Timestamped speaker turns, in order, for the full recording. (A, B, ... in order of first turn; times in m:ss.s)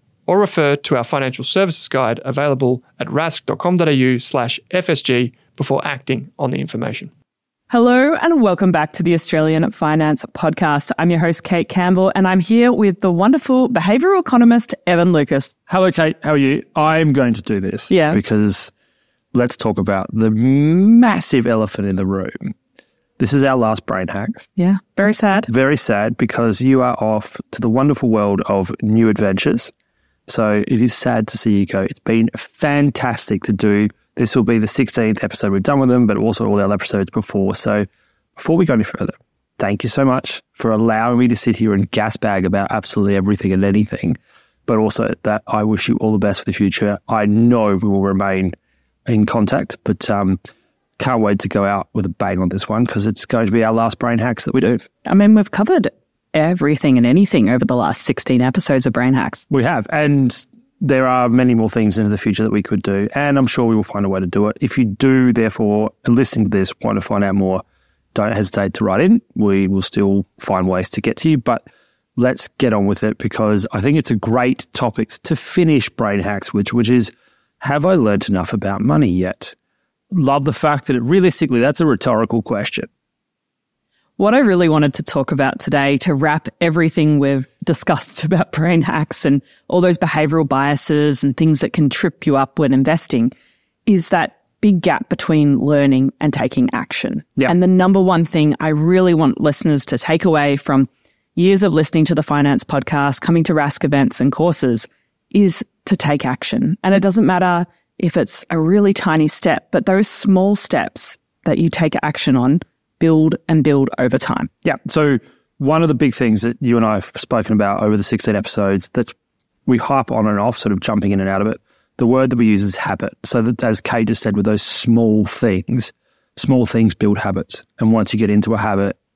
0:00.3-0:07.1 A
0:07.7-0:15.5 B
0:15.7-0:18.7 C
0:17.9-0:18.2 B
0:19.3-0:22.5 C
0:23.2-0:24.5 C
0:24.6-0:25.5 B
0:25.5-0:29.7 C
0:30.3-0:37.8 C
0:38.4-0:48.5 C
0:49.0-0:50.4 C
0:51.0-0:54.9 C
0:55.0-0:59.4 B
0:59.5-1:07.6 C
1:08.1-1:19.5 C
1:20.1-1:22.9 C
1:24.2-1:33.3 B
1:33.8-1:54.5 B
1:54.6-1:59.1 C
1:59.6-2:09.0 C